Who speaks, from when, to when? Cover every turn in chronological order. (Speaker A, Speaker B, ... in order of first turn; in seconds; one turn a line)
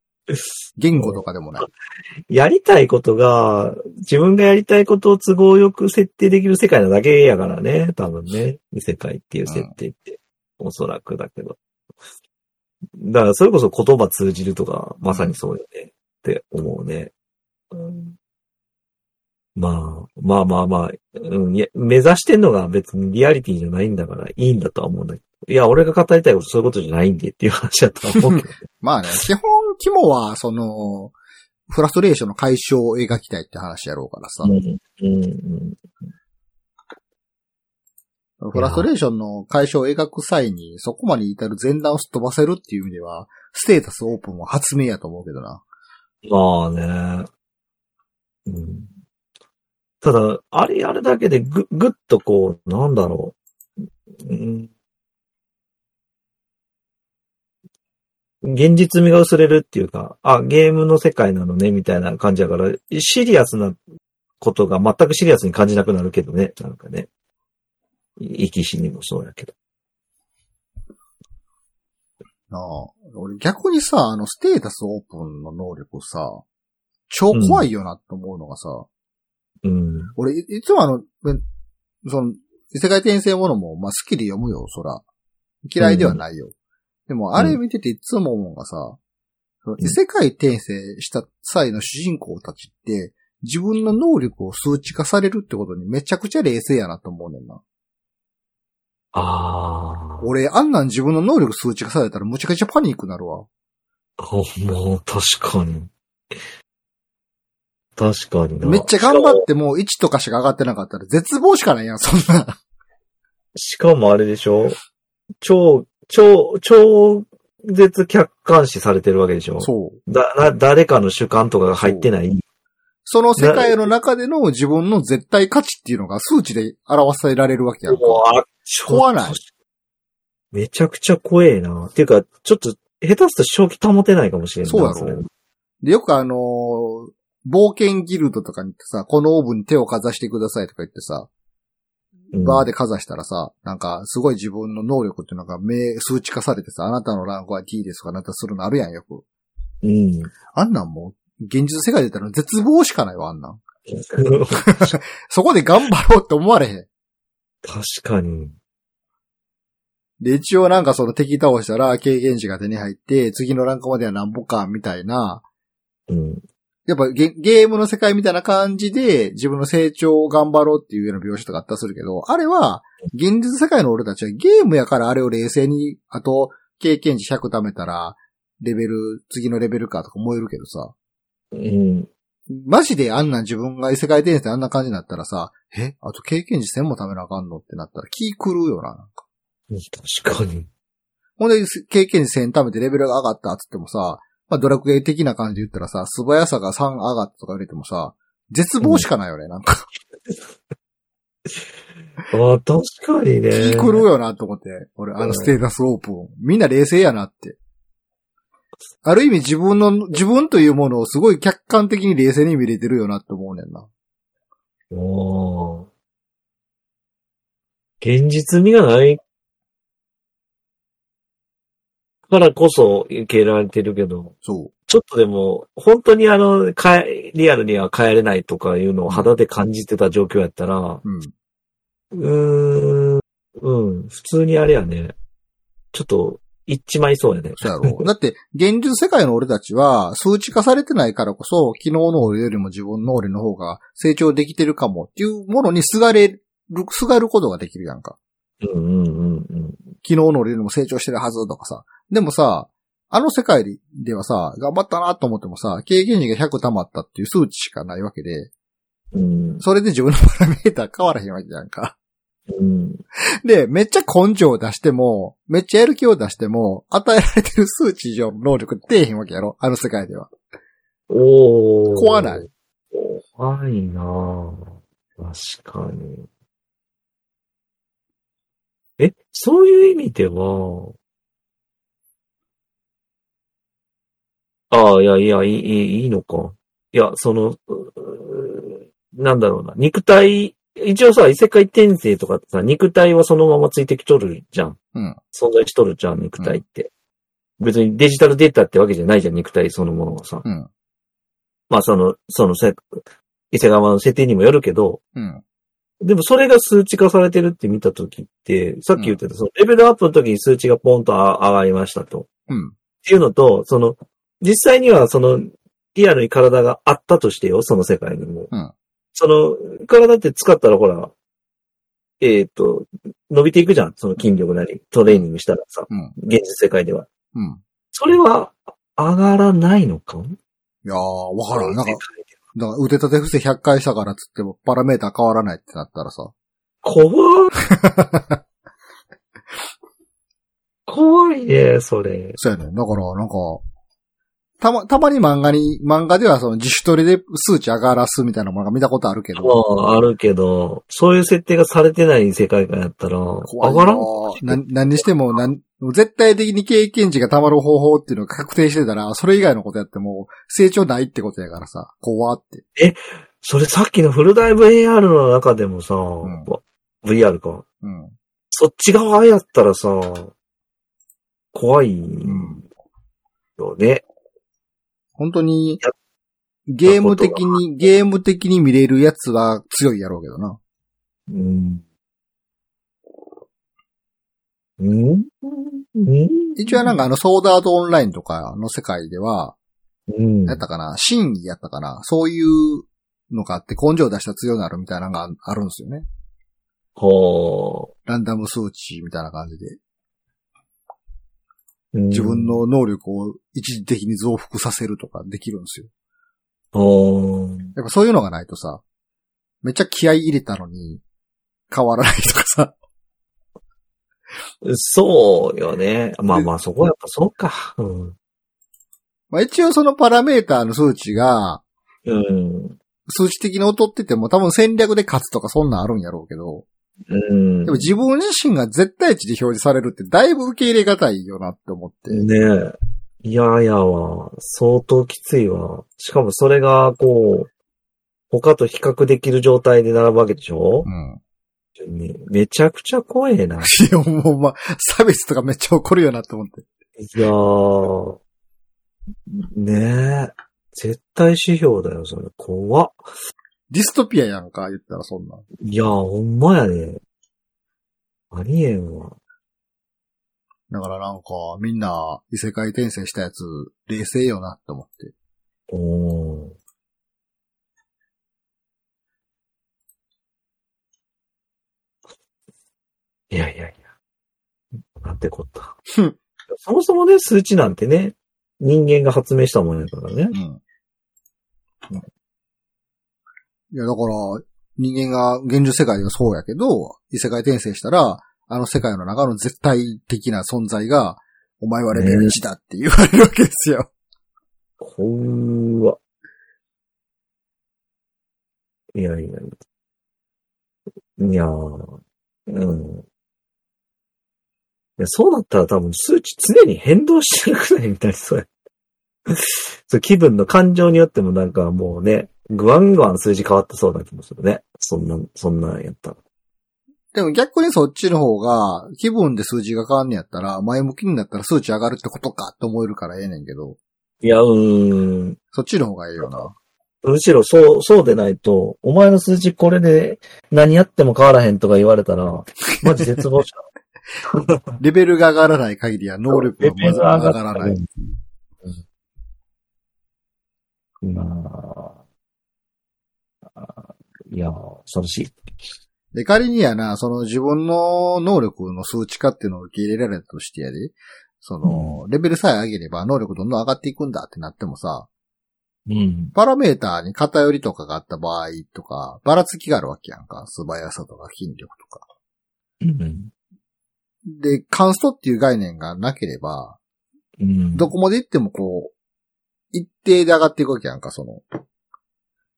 Speaker A: 0.8-1.7
Speaker B: 0.9-1.7
Speaker B: 2.3-11.6
Speaker A: 9.4-9.7
Speaker B: 13.0-17.1
Speaker A: 15.0-15.4
Speaker B: 17.7-18.1
Speaker B: 19.6-28.5
Speaker A: 28.1-31.1
Speaker A: 31.7-34.5
Speaker B: 34.4-35.8
Speaker A: 38.4-45.6
Speaker B: 38.5-38.9
Speaker B: 46.2-47.3
Speaker B: 48.5-48.9
Speaker B: 50.0-53.4
Speaker B: 54.2-54.7
Speaker B: 58.4-63.8
Speaker B: 64.4-67.1
Speaker B: 68.2-69.5
Speaker A: 72.5-76.4
Speaker A: 77.1-78.9
Speaker B: 77.3-77.7
Speaker B: 79.6-80.1
Speaker A: 80.2-81.4
Speaker A: 82.0-85.0
Speaker A: 85.7-86.5
Speaker B: 85.8-86.2
Speaker A: 87.1-89.0
Speaker A: 89.6-97.6
Speaker B: 99.1-100.2
Speaker A: 100.2-103.5
Speaker B: 104.2-105.9
Speaker B: 108.0-109.5
Speaker A: 108.6-112.6
Speaker B: 113.5-114.8
Speaker B: 115.4-122.4
Speaker A: 119.6-120.0
Speaker A: 121.8-122.1
Speaker A: 123.0-128.3
Speaker B: 123.4-123.9
Speaker B: 127.9-129.5
Speaker A: 128.9-129.4
Speaker B: 130.5-135.3
Speaker A: 134.6-135.2
Speaker A: 135.8-141.3
Speaker A: 142.3-149.2
Speaker B: 142.3-142.7
Speaker B: 149.8-150.3
Speaker A: 150.5-153.6
Speaker B: 153.9-155.0
Speaker A: 154.5-156.9
Speaker B: 157.6-158.6
Speaker A: 160.2-165.4
Speaker B: 166.1-166.4
Speaker A: 166.9-180.9
Speaker B: 181.5-182.1
Speaker A: 182.5-189.2
Speaker B: 189.7-190.7
Speaker A: 191.4-199.9
Speaker B: 198.8-199.1
Speaker B: 200.2-200.5
Speaker B: 202.3-204.1
Speaker A: 203.5-207.6
Speaker B: 205.2-205.5
Speaker A: 209.0-213.9
Speaker B: 214.9-215.9
Speaker B: 218.0-219.2
Speaker B: 222.3-224.3
Speaker A: 224.4-224.7
Speaker B: 224.9-231.0
Speaker A: 229.1-229.3
Speaker A: 231.0-231.3
Speaker B: 232.1-235.2
Speaker B: 235.9-238.1
Speaker A: 237.6-248.2
Speaker B: 248.6-249.8
Speaker A: 250.0-258.5
Speaker B: 259.1-259.6
Speaker A: 259.6-261.9
Speaker B: 262.5-263.0
Speaker A: 263.4-270.3
Speaker B: 271.1-276.3
Speaker A: 271.9-272.4
Speaker B: 279.0-280.9
Speaker B: 284.7-294.8
Speaker B: 295.3-296.9
Speaker B: 297.6-300.4
Speaker B: 301.7-305.0
Speaker A: 305.1-305.4
Speaker B: 306.0-312.3
Speaker A: 312.5-312.8
Speaker B: 313.0-318.5
Speaker B: 319.1-321.1
Speaker B: 322.2-327.1
Speaker A: 325.9-326.1
Speaker A: 327.3-327.6
Speaker B: 327.9-330.3
Speaker A: 330.8-332.0
Speaker B: 331.5-332.3
Speaker A: 332.6-336.3
Speaker B: 336.8-337.6
Speaker A: 337.7-338.4
Speaker B: 340.9-342.4
Speaker A: 342.4-343.6
Speaker A: 344.6-349.6
Speaker B: 349.4-355.4
Speaker A: 353.4-362.6
Speaker B: 362.8-367.6
Speaker A: 366.2-366.5
Speaker A: 367.8-368.1
Speaker B: 368.5-370.3
Speaker B: 371.5-372.6
Speaker A: 372.2-372.6
Speaker B: 373.6-374.0
Speaker A: 375.2-375.8
Speaker A: 376.7-380.6
Speaker B: 376.9-377.9
Speaker B: 381.3-381.8
Speaker B: 384.8-387.0
Speaker A: 386.6-389.6
Speaker B: 390.1-390.6
Speaker A: 390.5-396.1
Speaker B: 397.0-397.9
Speaker A: 398.1-399.8
Speaker B: 401.9-402.6
Speaker A: 402.1-405.9
Speaker B: 406.7-407.7
Speaker A: 407.8-408.8
Speaker A: 409.6-411.0
Speaker A: 411.7-412.8
Speaker B: 414.6-418.1
Speaker A: 419.3-421.6
Speaker B: 422.1-422.8
Speaker A: 423.1-426.6
Speaker B: 427.1-427.9
Speaker A: 427.6-432.2
Speaker B: 432.1-437.5
Speaker B: 438.3-440.9
Speaker A: 440.9-441.2
Speaker B: 441.8-443.7
Speaker A: 443.6-446.6
Speaker B: 447.0-448.2
Speaker B: 449.3-453.0
Speaker A: 453.7-455.4
Speaker B: 455.6-457.0
Speaker B: 458.3-459.1
Speaker A: 460.7-465.1
Speaker B: 465.7-466.5
Speaker B: 473.3-473.9
Speaker B: 475.0-475.8
Speaker B: 476.5-480.4
Speaker A: 480.3-480.6
Speaker A: 483.7-493.9
Speaker B: 491.9-492.4
Speaker B: 494.8-496.0
Speaker B: 498.9-499.5
Speaker B: 501.2-502.0
Speaker B: 502.5-503.0
Speaker B: 505.0-508.5
Speaker B: 509.3-516.2
Speaker A: 517.1-523.8
Speaker B: 524.2-525.4
Speaker A: 525.5-526.5
Speaker B: 526.2-526.5
Speaker B: 527.0-533.6
Speaker B: 534.3-534.6
Speaker A: 534.8-538.1
Speaker B: 536.3-537.9
Speaker B: 541.0-542.0
Speaker B: 543.5-545.4
Speaker A: 546.1-555.1
Speaker B: 551.6-552.0
Speaker B: 555.9-556.3
Speaker A: 556.4-562.0
Speaker B: 562.8-563.3
Speaker A: 564.3-566.8
Speaker B: 567.4-567.9
Speaker A: 567.7-568.9
Speaker A: 569.7-571.5